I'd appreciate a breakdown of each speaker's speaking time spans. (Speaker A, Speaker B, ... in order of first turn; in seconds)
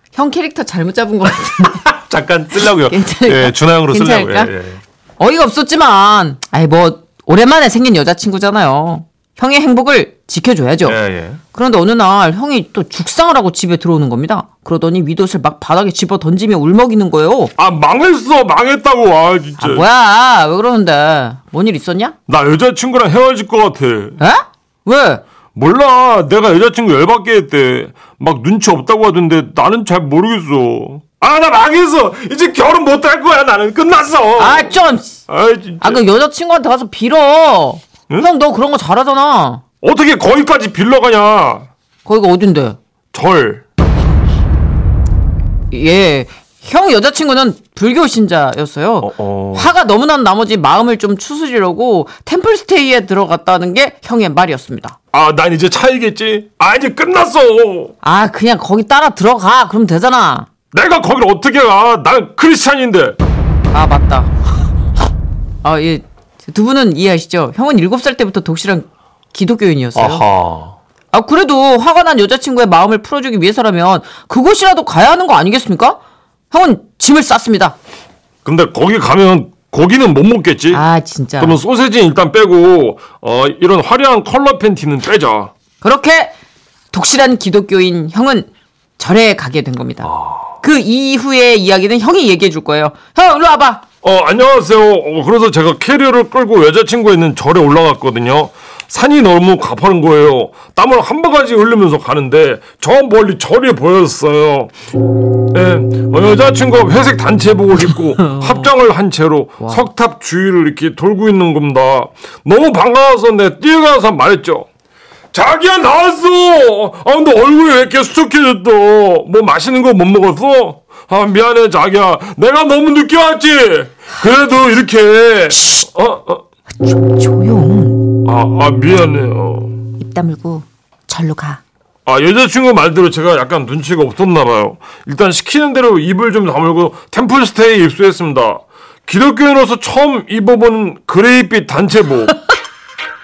Speaker A: 0.1-1.9, 2.6-4.5, 5.2-11.0, 11.5-17.5, 19.6-22.1, 24.2-25.2, 34.4-35.2, 35.8-39.6, 42.0-42.8, 45.7-55.0, 58.0-60.5, 63.7-64.3, 65.6-70.2, 71.1-77.8, 80.7-81.6, 85.8-86.3, 86.9-93.8, 126.8-128.1, 130.0-131.6
Speaker B: 1.9-4.8, 10.9-11.4
Speaker C: 17.6-19.9, 22.3-24.2, 25.5-34.8, 35.3-36.0, 39.8-41.7, 43.1-43.6, 49.0-49.7, 55.1-57.9, 60.7-63.2, 70.0-70.8, 78.4-80.8, 81.4-85.5, 90.0-90.5, 94.0-104.8, 105.5-114.7, 115.3-126.4, 128.2-129.8, 132.1-142.4